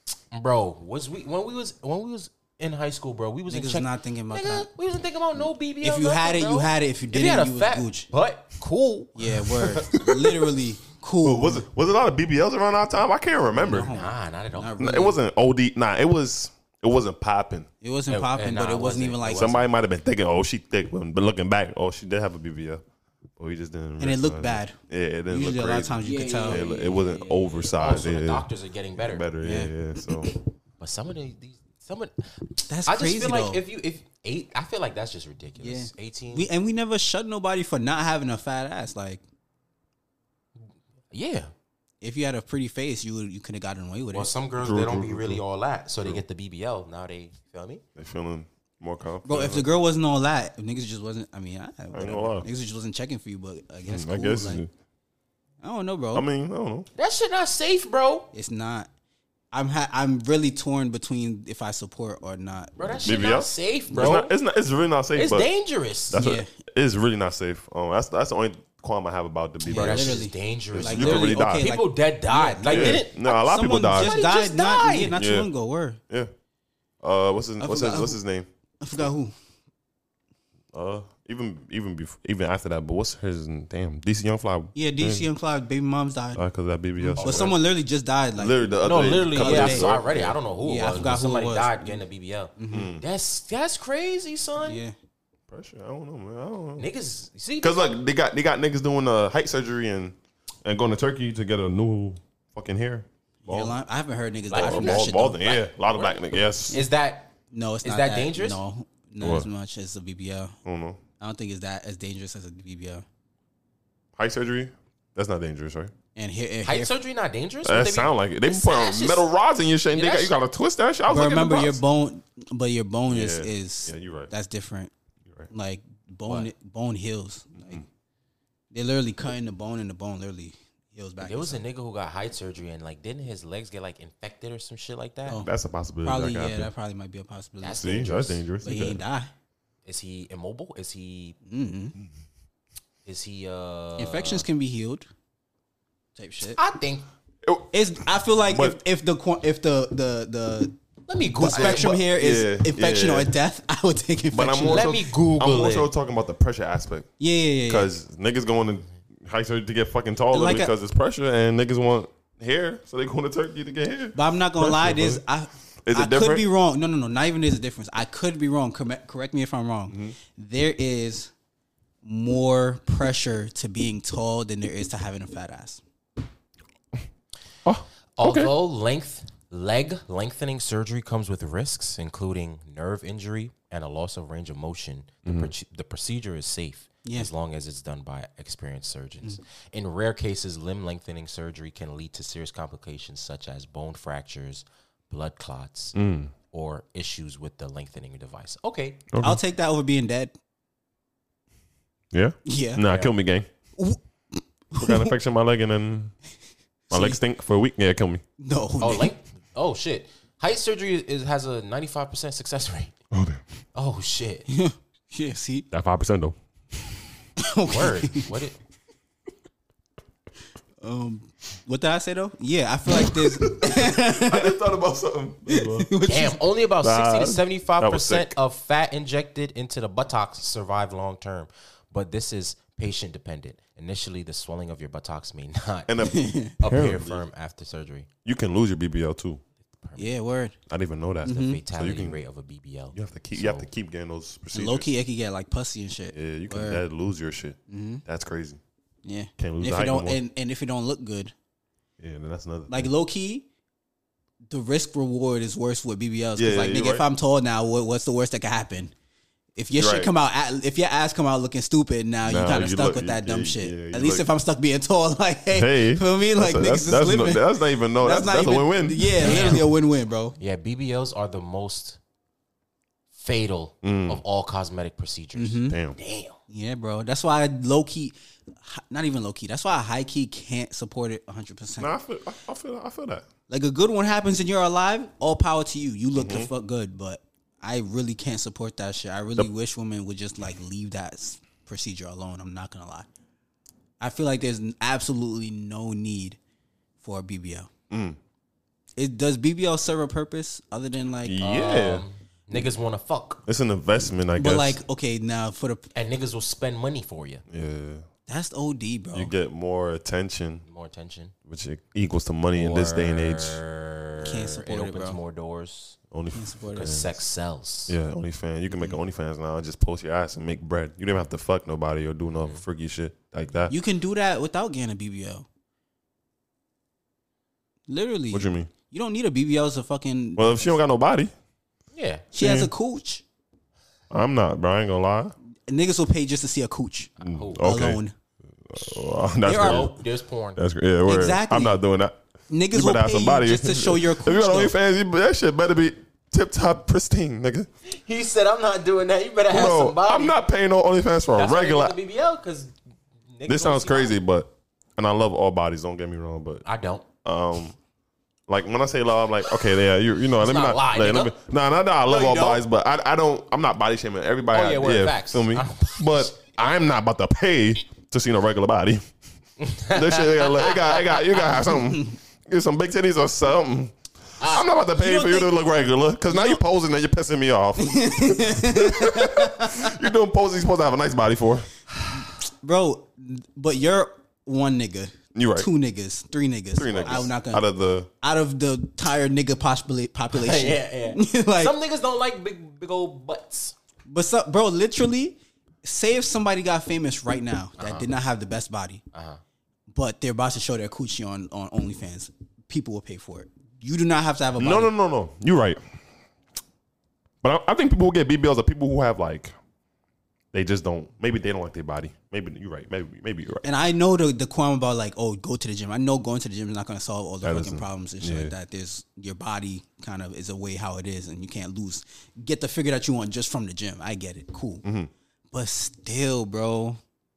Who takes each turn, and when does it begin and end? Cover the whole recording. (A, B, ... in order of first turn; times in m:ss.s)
0:00.3-0:09.8 A
0:03.5-0:04.7 B
0:05.8-0:08.1 B
0:09.2-0:11.7 B
0:09.6-0:10.5 C
0:11.2-0:13.9 C
0:13.5-0:15.2 B
0:13.8-0:14.8 A
0:14.8-0:17.7 C
0:17.8-0:19.7 B
0:18.1-0:19.5 A
0:19.2-0:22.8 C
0:23.4-0:30.3 C
0:24.0-0:24.8 B
0:25.3-0:26.7 B
0:26.0-0:29.2 A
0:29.4-0:29.7 B
0:30.8-0:36.5 A
0:32.7-0:33.6 B
0:35.6-0:39.2 B
0:41.1-0:41.5 A
0:42.0-0:44.3 B
0:44.1-0:47.8 A
0:44.6-0:45.4 C
0:48.0-0:49.7 C
0:49.3-0:54.6 B
0:51.9-0:52.5 C
0:53.9-0:54.7 C
0:55.6-0:56.3 B
0:56.1-0:56.9 C
0:57.0-0:58.3 A
0:58.3-0:58.9 B
0:59.5-1:03.1 B
1:02.8-1:04.3 A
1:03.0-1:05.5 C
1:05.2-1:06.3 A
1:06.1-1:11.7 C
1:06.1-1:06.5 B
1:09.6-1:16.0 B
1:09.7-1:13.2 A
1:12.6-1:14.2 C
1:14.0-1:15.2 A
1:15.1-1:15.5 C
1:17.0-1:18.5 C
1:17.6-1:18.2 B
1:18.8-1:19.4 B
1:20.7-1:25.3 C
1:24.8-1:26.4 B
1:26.4-1:27.6 C
1:27.0-1:28.6 B
1:27.2-1:27.5 A
1:28.4-1:30.4 C
1:28.8-1:34.8 A
1:29.3-1:29.9 B
1:30.6-1:32.0 B
1:32.6-1:32.9 B
1:32.7-1:33.1 C
1:34.7-1:34.9 B
1:35.5-1:36.9 C
1:36.8-1:38.0 A
1:37.6-1:43.8 C
1:43.4-1:45.4 B
1:44.5-1:46.8 C
1:44.5-1:47.3 A
1:47.5-1:50.6 B
1:47.8-1:48.6 A
1:49.2-1:49.5 C
1:50.6-1:51.0 C
1:51.2-1:53.0 B
1:54.2-1:55.9 C
1:56.2-1:56.9 B
1:56.6-1:59.3 A
1:57.6-2:01.8 C
1:59.9-2:00.3 A
2:01.1-2:04.9 B
2:03.1-2:04.3 C
2:05.5-2:07.8 B
2:07.6-2:07.8 C
2:08.7-2:11.6 B
2:11.2-2:15.4 A
2:15.4-2:16.7 C
2:16.0-2:18.0 B
2:17.6-2:18.4 A
2:17.8-2:19.0 C
2:18.6-2:19.3 B
2:19.8-2:21.4 A
2:21.5-2:22.0 B
2:23.0-2:24.4 A
2:24.0-2:25.1 B
2:26.2-2:26.6 B
2:26.6-2:27.1 A
2:27.4-2:27.7 C
2:27.7-2:30.8 B
2:28.5-2:28.8 C
2:31.1-2:31.9 A
2:31.4-2:34.9 B
2:31.5-2:33.3 C
2:34.3-2:37.1 C
2:34.7-2:35.9 A
2:37.2-2:37.9 B
2:37.7-2:45.2 C
2:40.3-2:40.7 B
2:44.2-2:51.3 B
2:45.8-2:46.5 C
2:49.9-2:50.2 C
2:52.0-2:55.8 B
2:57.6-2:58.5 C
2:58.2-3:16.0 A
3:05.3-3:05.5 C
3:07.0-3:07.3 B
3:15.9-3:16.3 C
3:16.5-3:19.0 A
3:19.1-3:19.4 C
3:19.2-3:20.3 B
3:22.1-3:23.5 C
3:22.4-3:22.8 B
3:22.9-3:23.1 A
3:23.8-3:25.1 B
3:24.8-3:26.2 C
3:26.9-3:27.2 B
3:26.9-3:28.2 C
3:28.4-3:29.1 B
3:28.8-3:33.0 A
3:33.1-3:33.4 C
3:33.8-3:34.5 A
3:34.5-3:35.7 B
3:35.7-3:36.4 C
3:37.4-3:38.3 B
3:37.7-3:38.6 A
3:40.8-3:44.6 B
3:43.0-3:45.9 C
3:45.5-3:46.4 B
3:46.0-3:56.0 A
3:46.8-3:48.4 C
3:55.9-3:57.2 C
3:56.0-3:56.5 B
3:56.6-3:58.1 A
3:58.2-3:59.4 C
3:59.8-4:00.1 A
4:00.0-4:00.6 B
4:00.7-4:02.2 C
4:01.2-4:01.6 B
4:01.3-4:03.7 A
4:02.9-4:04.9 C
4:04.5-4:06.8 B
4:06.1-4:08.6 C
4:07.7-4:08.0 B
4:09.0-4:11.3 B
4:09.4-4:10.2 C
4:12.0-4:12.9 C
4:12.7-4:13.5 B
4:14.5-4:18.9 B
4:16.4-4:17.1 C
4:19.6-4:30.4 B
4:19.8-4:20.1 C
4:22.2-4:24.3 C
4:25.5-4:29.7 C
4:29.2-4:29.7 A
4:30.4-4:32.0 A
4:33.1-4:36.4 A
4:33.8-4:34.2 C
4:35.4-4:35.8 B
4:35.7-4:36.0 C
4:36.5-4:41.9 B
4:41.8-4:43.2 C
4:43.5-4:53.1 B
4:46.1-4:46.5 C
4:54.0-4:56.4 B
4:57.0-4:57.7 B
4:57.9-4:58.2 C
4:59.0-5:01.5 B
5:01.2-5:02.0 C
5:01.4-5:03.4 A
5:03.5-5:04.8 C
5:04.4-5:05.9 B
5:06.0-5:07.4 A
5:07.5-5:08.0 C
5:08.3-5:09.3 B
5:09.1-5:10.6 C
5:10.7-5:11.3 A
5:11.5-5:13.6 C
5:12.5-5:16.0 A
5:14.2-5:15.2 B
5:16.1-5:17.1 C
5:16.3-5:17.0 B
5:16.7-5:17.9 A
5:17.9-5:23.7 C
5:18.7-5:19.0 B
5:23.7-5:25.5 B
5:27.9-5:30.7 B
5:28.3-5:28.7 C
5:30.4-5:31.3 C
5:31.9-5:32.3 A
5:32.3-5:33.2 B
5:32.4-5:32.7 C
5:34.1-5:35.3 C
5:35.7-5:38.1 B
5:37.2-5:37.7 A
5:37.2-5:38.0 C
5:38.6-5:39.9 C
5:39.4-5:39.9 B
5:39.5-5:40.6 A
5:40.6-5:42.2 C
5:41.0-5:41.8 B
5:42.5-5:44.7 B
5:42.7-5:47.7 C
5:47.9-5:50.4 A
5:49.5-5:52.0 C
5:51.4-5:52.7 A
5:53.3-5:54.2 A
5:53.5-5:56.6 C
5:56.6-5:57.1 A
5:57.2-5:57.8 C
5:58.5-6:09.0 C
6:00.4-6:01.4 A
6:02.0-6:02.6 A
6:04.5-6:06.4 A
6:09.6-6:11.7 A
6:09.9-6:21.7 C
6:14.4-6:14.7 A
6:15.0-6:15.5 B
6:16.3-6:16.6 B
6:17.8-6:19.9 B
6:22.1-6:27.6 B
6:25.4-6:25.7 C
6:26.8-6:28.1 C
6:26.9-6:27.3 A
6:28.2-6:31.7 B
6:30.3-6:33.8 A
6:34.1-6:39.0 B
6:37.8-6:38.1 A
6:39.1-6:39.4 A
6:39.9-6:44.9 B
6:44.6-6:45.8 C
6:47.4-6:49.5 C
6:50.5-6:53.7 C
6:53.6-7:04.8 B
6:57.4-6:58.5 C
7:04.8-7:05.1 C
7:05.5-7:07.0 B